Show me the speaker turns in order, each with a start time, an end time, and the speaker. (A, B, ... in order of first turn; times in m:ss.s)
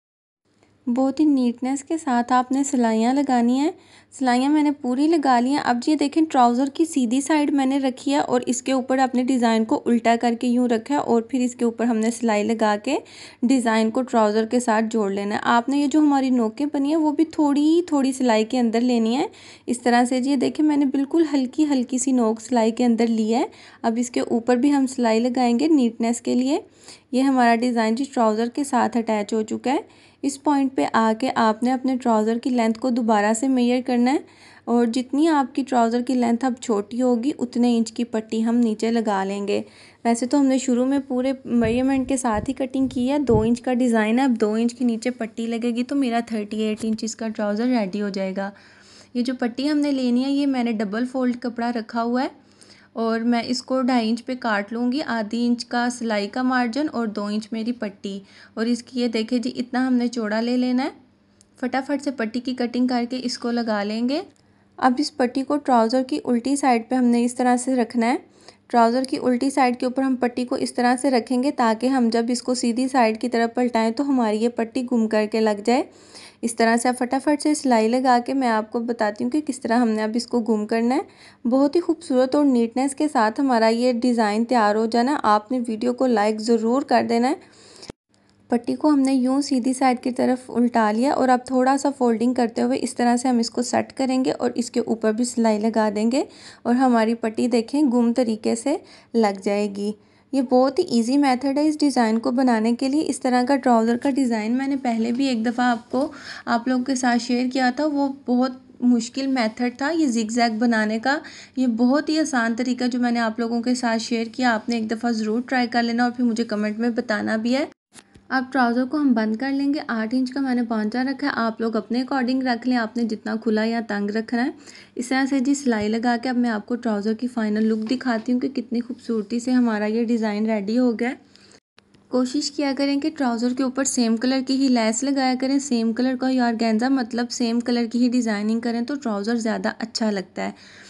0:00.9-0:48.5 A
0:49.1-0:52.3 A
0:53.0-1:00.9 A
1:01.6-1:04.2 A
1:04.8-1:15.9 A
1:16.4-1:27.4 A
1:28.5-1:57.7 A
1:58.3-2:11.2 A
2:12.1-2:20.6 A